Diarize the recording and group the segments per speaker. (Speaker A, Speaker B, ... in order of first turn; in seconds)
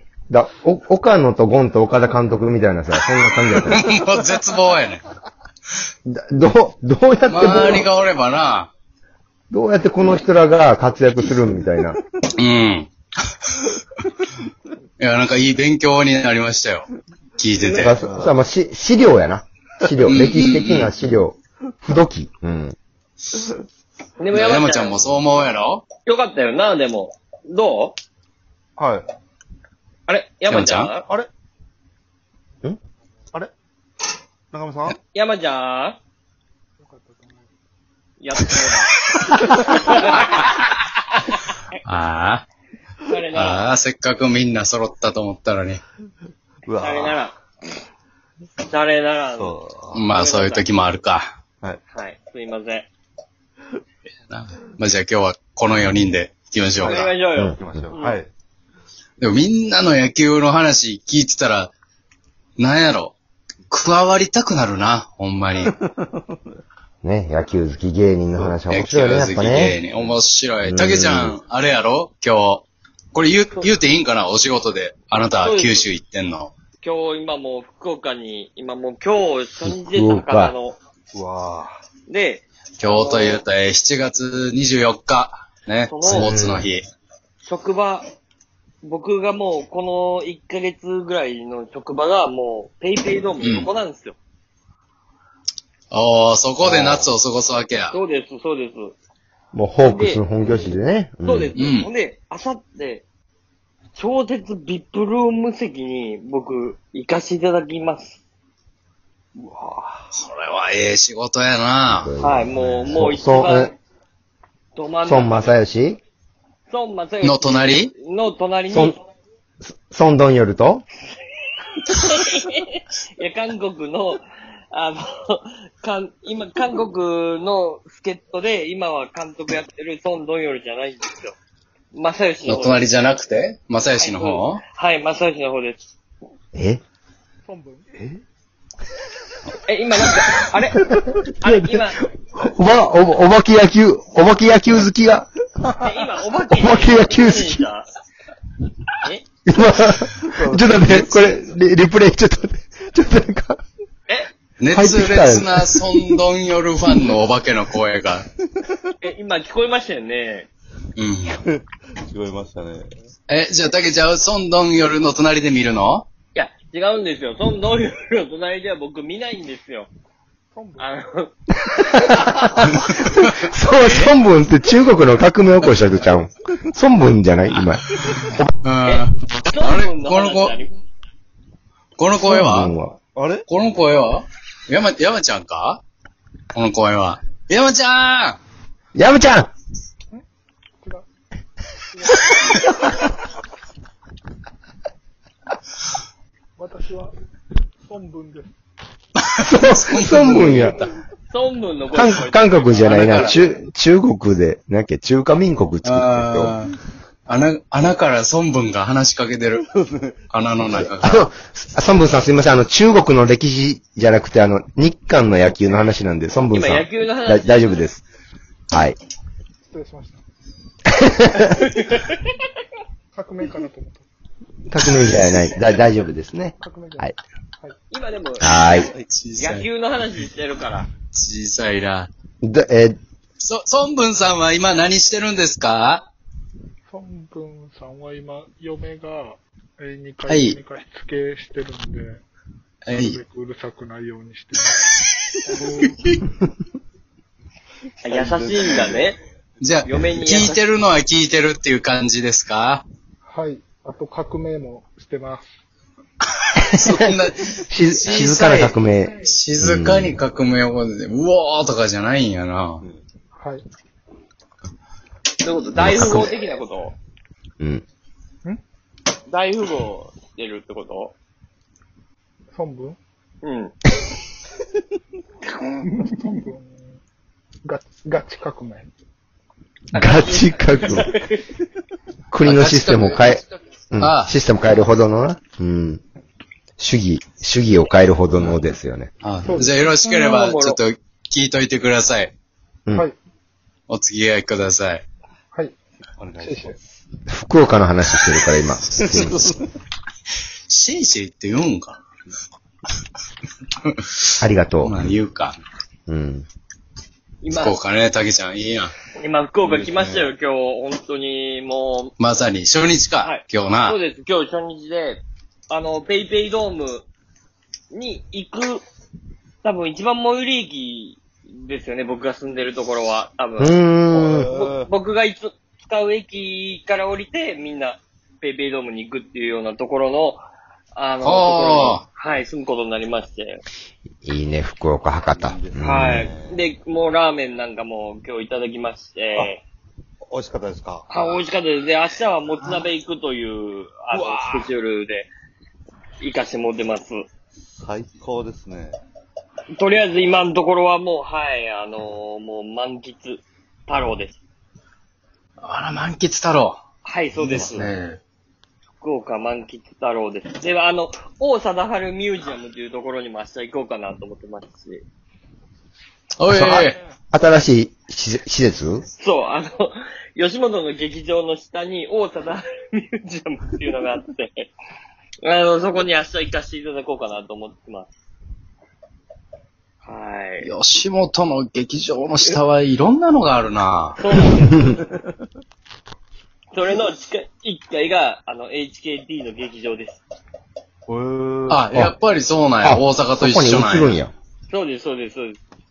Speaker A: 0.3-3.9, 6.0-7.9, 9.5-12.0, 17.7-22.8, 57.3-57.6, 67.0-69.8, 70.6-71.3, 79.6-80.5, 86.0-86.7, 96.6-97.0, 99.5-101.5, 111.9-113.7, 115.0-116.0, 118.7-119.0, 119.6-120.8, 136.5-136.8, 140.9-145.3, 146.5-147.7, 149.4-153.6, 154.7-156.0, 171.7-178.5, 182.2-183.0, 188.9-189.5, 199.5-200.8, 201.9-206.5, 210.7-218.0, 218.7-219.0, 220.9-221.6, 224.7-227.2, 228.4-228.9, 232.4-233.0, 257.5-260.2, 265.8-266.4, 279.9-281.1, 282.3-286.0, 286.8-289.1, 297.3-299.6, 304.4-305.0, 306.1-306.4, 323.6-324.5, 334.2-336.3, 366.5-369.1, 392.8-394.3
Speaker B: 3.6-5.0, 7.3-8.7, 12.3-13.6, 15.0-17.9, 20.0-20.9, 24.3-25.8, 30.5-30.9, 41.8-42.4, 43.3-45.8, 49.9-51.3, 54.3-57.1, 59.2-61.7, 62.6-63.1, 63.7-65.7, 68.7-76.5, 82.8-86.8, 93.4-93.7, 95.9-98.0, 101.5-101.9, 110.1-112.1, 117.2-117.9, 132.4-134.6, 150.8-151.5, 154.6-158.2, 160.9-161.4, 163.3-166.1, 172.7-174.1, 178.0-180.6, 182.0-182.7, 183.5-185.8, 186.5-188.4, 199.2-200.9, 202.8-203.4, 205.8-206.8, 207.3-209.6, 210.3-211.2, 228.4-229.7, 231.1-232.1, 233.4-236.1, 240.3-240.6, 242.8-243.2, 245.9-246.2, 249.6-252.8, 256.6-262.8, 282.4-283.4, 284.0-284.3, 289.2-292.3, 293.9-295.0, 300.7-302.0, 303.8-304.3, 304.8-305.6, 307.5-308.9, 312.2-314.0, 331.2-332.0, 342.6-342.9, 355.6-356.8, 357.5-358.2, 366.4-367.0, 380.6-384.2, 391.7-394.2
Speaker C: 17.6-17.9, 24.2-25.0, 26.1-27.9, 30.1-31.1, 35.1-36.0, 38.2-40.4, 43.0-43.7, 46.8-47.4, 48.6-49.6, 50.1-50.7, 51.9-52.9, 56.8-58.2, 75.4-75.9, 76.8-80.8, 82.1-83.4, 85.8-86.3, 87.4-88.1, 88.8-94.2, 97.9-98.9, 99.8-100.2, 101.2-103.0, 103.9-108.2, 112.2-113.8, 114.7-115.5, 116.7-119.0, 121.8-131.3, 131.9-132.9, 134.0-135.8, 139.6-142.0, 145.7-147.9, 159.0-160.5, 166.3-169.9, 170.8-171.3, 178.8-180.8, 201.3-203.4, 216.5-217.8, 221.8-222.2, 227.9-228.8, 229.4-230.9, 248.0-249.2, 249.8-250.6, 265.4-266.9, 269.3-271.1, 273.4-273.7, 279.9-281.5, 290.0-290.8, 307.4-307.8, 309.2-312.1, 313.2-317.1, 317.9-318.8, 319.6-323.8, 324.4-330.4, 330.9-333.6, 335.8-339.6, 341.1-345.3, 346.2-347.2, 349.8-354.4, 357.0-357.9, 359.0-365.0, 369.2-374.7, 375.4-378.1, 380.0-380.7, 384.2-385.0, 386.7-390.2, 394.7-395.6
Speaker D: 18.0-18.3, 28.8-29.1, 34.5-35.0, 46.6-47.2, 49.3-50.1, 56.8-58.3, 65.7-66.2, 81.1-81.7, 109.4-110.0, 150.3-151.0, 161.3-162.9, 183.1-183.4, 209.7-210.2, 248.1-249.1, 296.2-296.8, 299.0-299.6, 309.6-310.3, 324.1-324.9, 335.3-336.7, 340.3-341.1, 344.1-344.7, 347.8-349.0, 357.4-357.9, 391.1-391.8
Speaker E: 36.8-37.5, 137.4-137.9, 170.5-170.8, 190.8-191.1, 191.9-192.7, 196.6-197.1, 197.8-198.5, 219.7-220.2, 223.1-224.1, 226.6-227.1, 236.9-242.2, 242.9-244.9, 245.5-246.0, 253.2-255.5, 263.3-263.6, 272.5-273.0, 275.8-276.9, 277.6-278.9, 289.4-289.7, 296.4-296.8